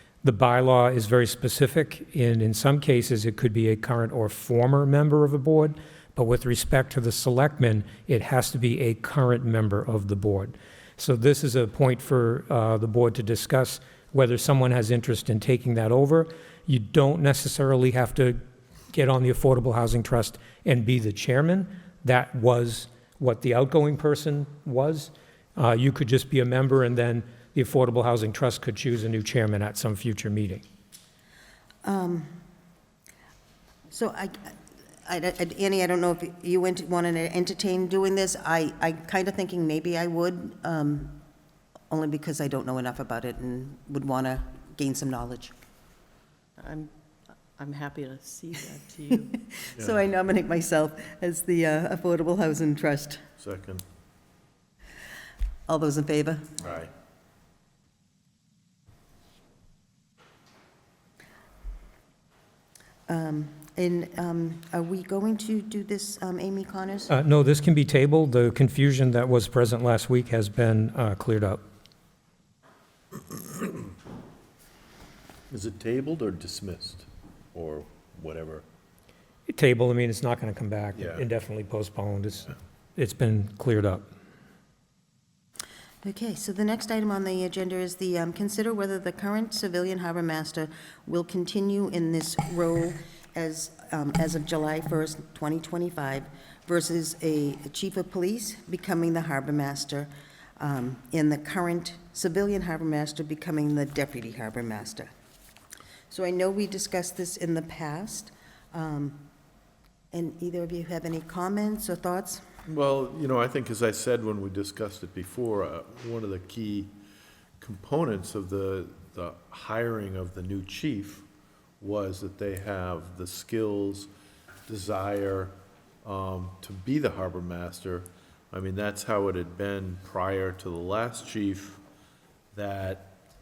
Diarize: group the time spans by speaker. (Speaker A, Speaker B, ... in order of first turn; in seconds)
Speaker A: 0.2-18.4, 18.9-30.6, 67.1-71.6, 79.5-84.1
Speaker B: 31.8-32.3, 33.9-34.5, 35.1-41.2, 41.9-45.5, 49.3-53.2, 55.7-56.6, 63.1-67.1, 86.0-105.1, 106.1-109.2, 110.1-112.4
Speaker C: 46.6-46.9, 47.6-49.3
Speaker D: 53.4-53.8, 56.6-56.9, 75.5-78.7, 80.9-81.3, 112.7-116.9, 117.6-121.3, 121.8-124.1, 124.7-131.8, 132.5-133.2